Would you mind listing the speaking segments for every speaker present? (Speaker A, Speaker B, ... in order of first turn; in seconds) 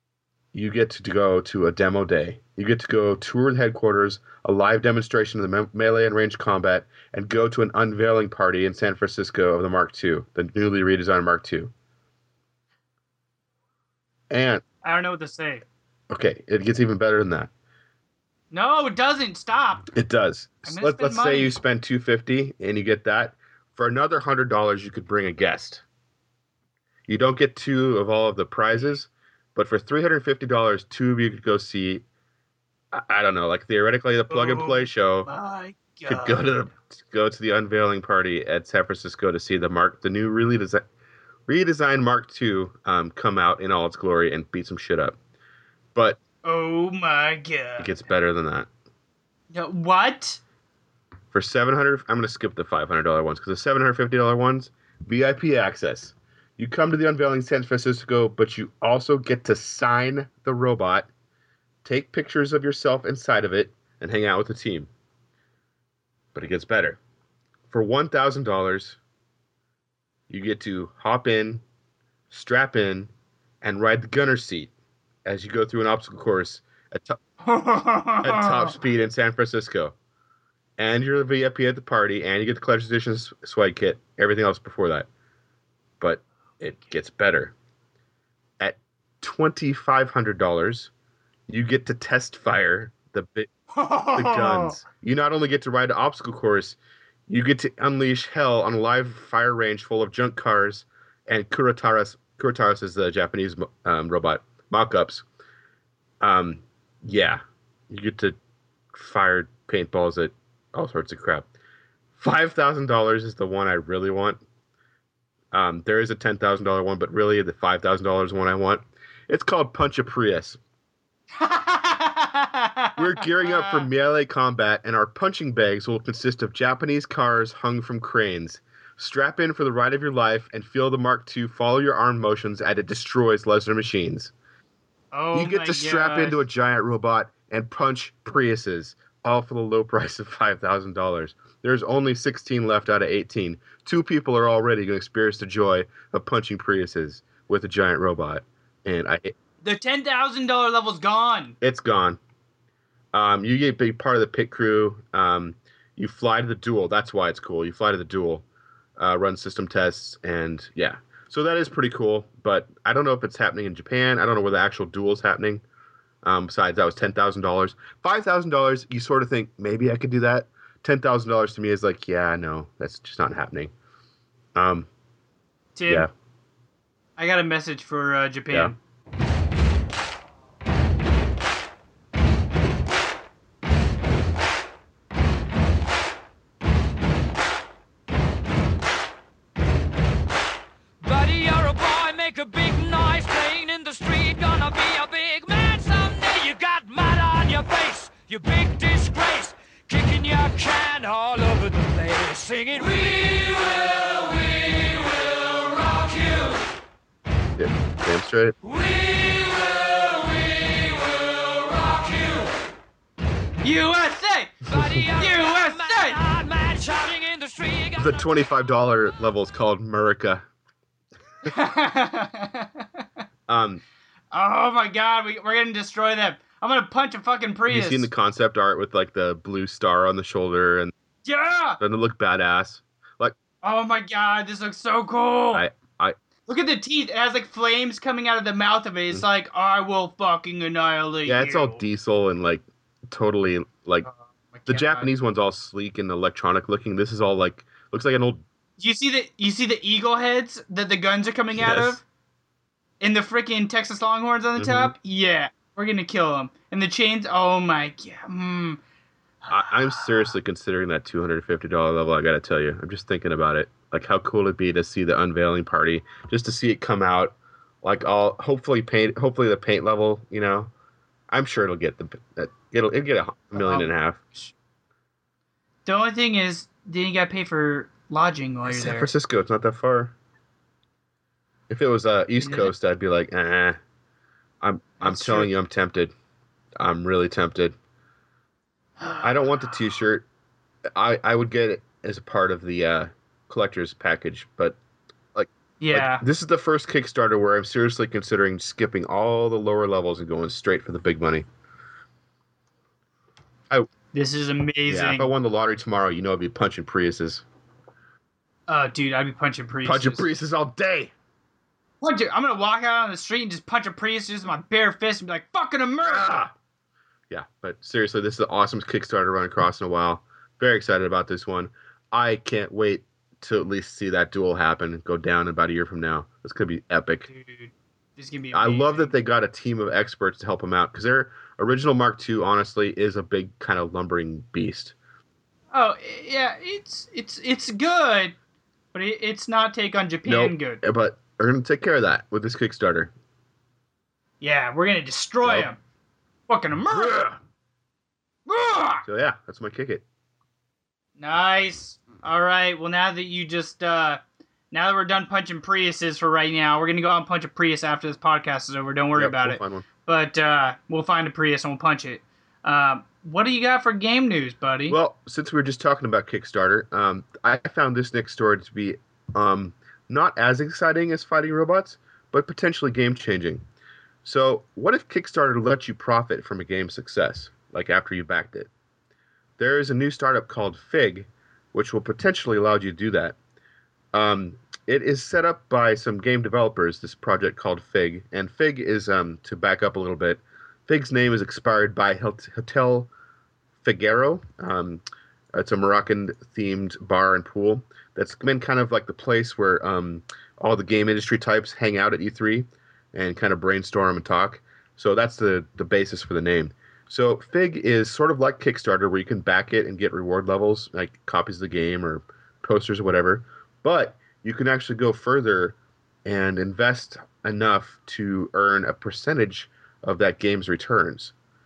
Speaker A: 0.5-11.7, 14.3-14.6, 16.1-17.5, 19.9-25.8, 27.1-32.0, 32.9-35.3, 36.1-40.8, 41.5-45.2, 47.8-48.7, 51.3-61.1, 61.8-64.9, 66.3-67.0, 67.7-69.0, 70.3-71.6, 72.3-73.1, 73.6-74.7, 75.2-77.2, 78.2-79.9, 80.8-85.1, 86.0-87.5, 88.6-90.9, 91.5-93.5, 94.1-105.2, 106.2-108.4, 108.9-111.5, 112.2-114.4, 115.5-120.6, 123.0-134.3, 135.3-149.3, 151.6-152.2, 153.1-158.4, 159.0-165.6, 166.2-173.7, 174.5-174.9, 207.6-208.6, 217.9-220.4, 223.5-223.8, 227.7-230.9, 231.8-233.3, 235.5-236.1, 241.2-244.1, 244.7-248.4, 251.5-252.0, 254.6-254.9, 259.5-270.7, 271.3-274.2, 278.6-280.1, 281.7-283.8, 284.6-286.1, 286.8-287.7, 289.2-290.2, 290.9-294.8, 295.3-301.4, 304.9-307.4, 309.8-311.1, 316.0-316.5, 317.3-327.3, 328.5-334.9, 340.2-343.1, 345.4-345.7, 346.9-347.4, 349.0-350.0, 359.1-359.9, 364.9-373.6, 374.2-378.7, 379.6-383.4, 384.1-393.1, 393.8-395.0, 395.5-421.3
Speaker B: 14.8-15.6, 18.5-19.8, 20.6-21.6, 28.7-29.0, 34.3-36.5, 46.4-47.9, 49.5-50.4, 77.4-78.8, 93.7-94.8, 121.3-123.9, 135.1-136.4, 149.6-151.5, 175.7-176.1, 177.2-178.8, 213.6-216.2, 221.4-223.0, 224.3-228.1, 231.2-231.8, 233.6-235.6, 236.5-241.8, 244.0-245.1, 248.8-252.0, 253.0-258.8, 259.4-260.0, 273.5-274.5, 275.9-279.1, 282.4-282.7, 285.0-285.5, 289.0-289.7, 295.8-296.2, 304.1-305.3, 308.7-310.2, 312.0-316.4, 327.3-329.1, 335.7-338.4, 338.9-340.8, 344.4-345.8, 346.5-347.2, 348.5-349.0, 351.2-365.0
Speaker C: 191.0-206.5, 208.7-210.7, 211.8-212.4, 214.7-218.2